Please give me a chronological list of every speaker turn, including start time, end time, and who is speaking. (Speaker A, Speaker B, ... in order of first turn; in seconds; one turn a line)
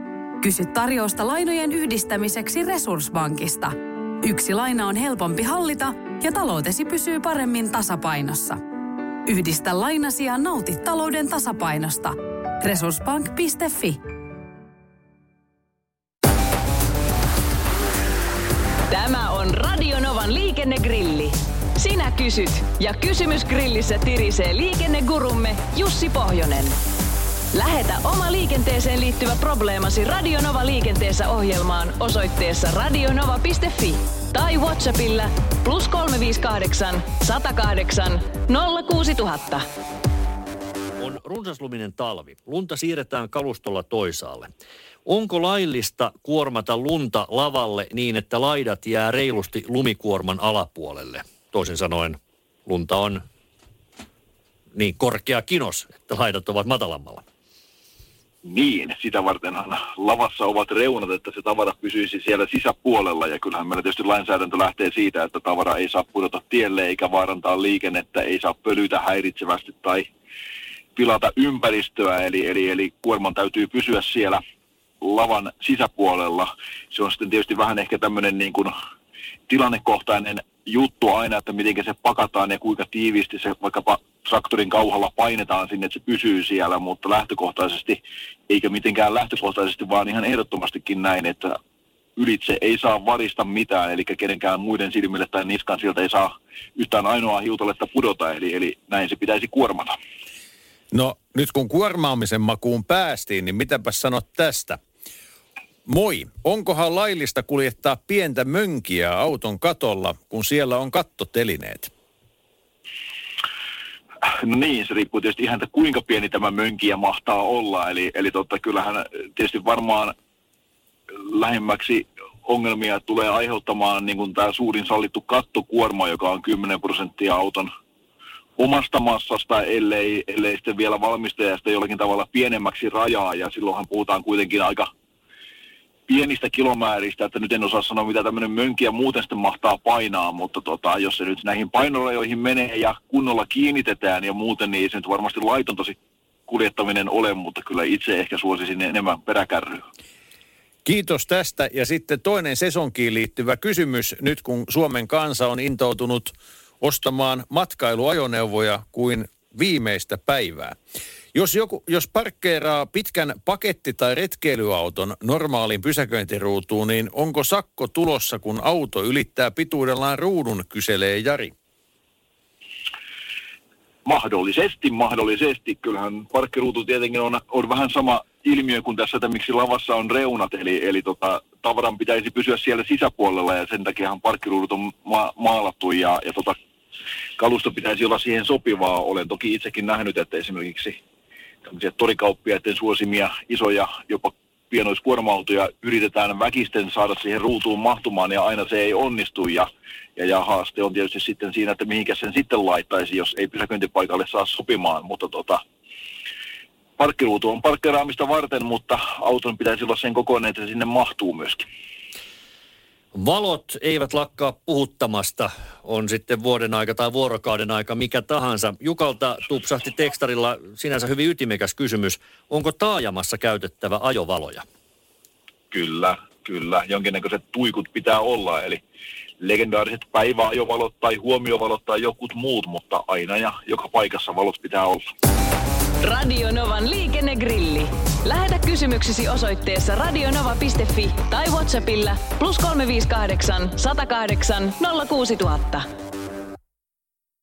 Speaker A: 0.4-8.6
Speaker A: 9.3-14.0
Speaker B: 18.9-26.8
Speaker B: 27.5-39.6
Speaker C: 41.0-44.5
Speaker C: 45.1-53.2
Speaker C: 54.8-57.2
Speaker D: 58.4-70.1
Speaker D: 71.0-74.4
Speaker D: 75.0-78.7
Speaker D: 79.5-91.6
Speaker D: 92.2-100.0
Speaker E: 100.9-104.8
Speaker E: 105.9-111.9
Speaker D: 114.4-120.1
Speaker D: 121.3-127.7
Speaker D: 128.6-134.9
Speaker D: 136.1-146.0
Speaker D: 146.5-149.8
Speaker E: 150.8-160.8
Speaker E: 161.3-171.5
Speaker D: 174.1-186.6
Speaker D: 187.4-191.0
Speaker D: 191.7-205.6
Speaker D: 207.0-211.6
Speaker C: 213.2-224.7
Speaker D: 225.7-228.8
Speaker D: 229.4-235.0
Speaker B: 236.0-245.9